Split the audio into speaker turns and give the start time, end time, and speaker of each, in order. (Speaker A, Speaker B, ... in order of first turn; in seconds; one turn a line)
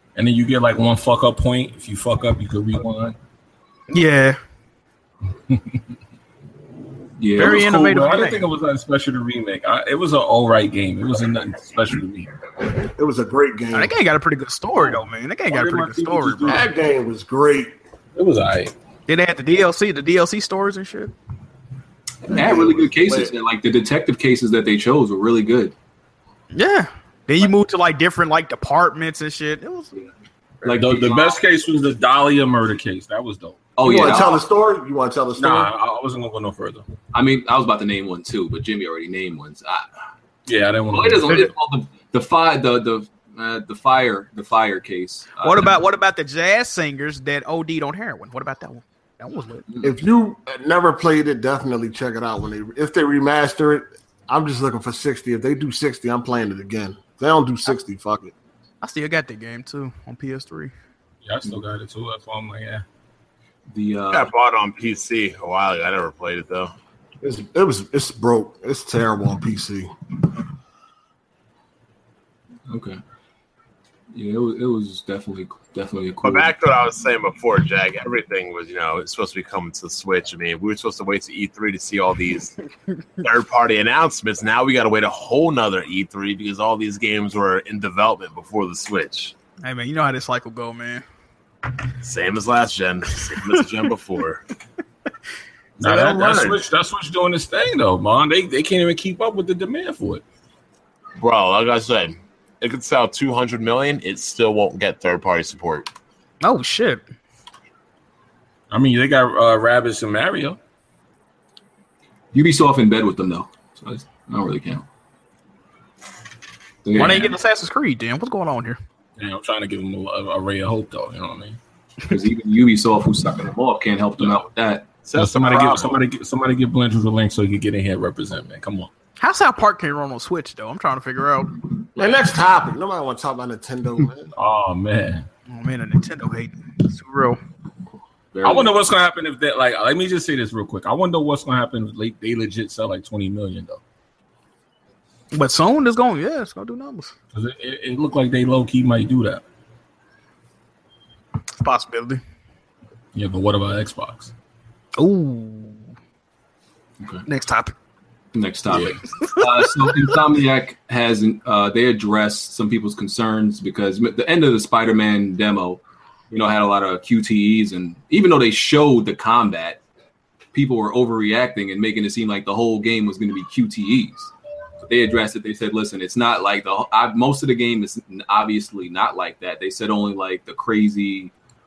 Speaker A: 0.1-3.1
Speaker B: 3.9-4.4
Speaker A: 5.5-5.8
Speaker C: 7.2-7.6
Speaker B: 7.4-8.5
Speaker A: 7.4-12.3
Speaker D: 12.8-13.9
Speaker B: 13.7-16.6
Speaker A: 14.8-16.7
Speaker D: 16.4-17.8
Speaker A: 18.1-18.7
Speaker B: 19.1-21.1
Speaker C: 22.3-25.7
Speaker D: 22.3-23.3
Speaker B: 26.5-29.9
Speaker C: 30.6-31.4
Speaker A: 30.7-34.2
Speaker C: 33.8-34.4
Speaker D: 33.8-35.7
Speaker A: 35.4-36.9
Speaker C: 37.1-39.9
Speaker A: 40.5-41.5
Speaker C: 40.9-45.7
Speaker B: 45.4-49.6
Speaker D: 49.8-58.3
Speaker B: 58.8-60.7
Speaker A: 61.2-62.8
Speaker C: 63.7-64.3
Speaker E: 64.1-66.7
Speaker D: 67.2-69.9
Speaker C: 72.7-73.0
Speaker C: 74.1-76.5
Speaker E: 76.2-82.5
Speaker E: 83.2-89.3
Speaker B: 89.6-91.0
Speaker E: 92.0-94.4
Speaker A: 95.8-100.2
Speaker E: 95.8-96.6
Speaker E: 101.2-105.9
Speaker B: 106.4-107.0
Speaker A: 108.7-110.6
Speaker C: 112.3-114.8
Speaker C: 116.8-117.3
Speaker B: 117.0-118.8
Speaker A: 119.2-121.6
Speaker C: 122.1-124.9
Speaker E: 125.0-126.0
Speaker A: 125.1-128.9
Speaker B: 129.2-131.5
Speaker D: 131.9-134.3
Speaker A: 134.3-135.3
Speaker B: 135.5-137.4
Speaker C: 138.3-138.7
Speaker A: 138.4-143.8
Speaker B: 145.3-147.1
Speaker A: 147.3-149.4
Speaker B: 151.6-152.2
Speaker A: 153.1-154.3
Speaker B: 155.0-155.8
Speaker B: 157.2-157.7
Speaker C: 158.3-169.8
Speaker A: 158.7-159.0
Speaker B: 159.2-159.4
Speaker C: 170.5-181.3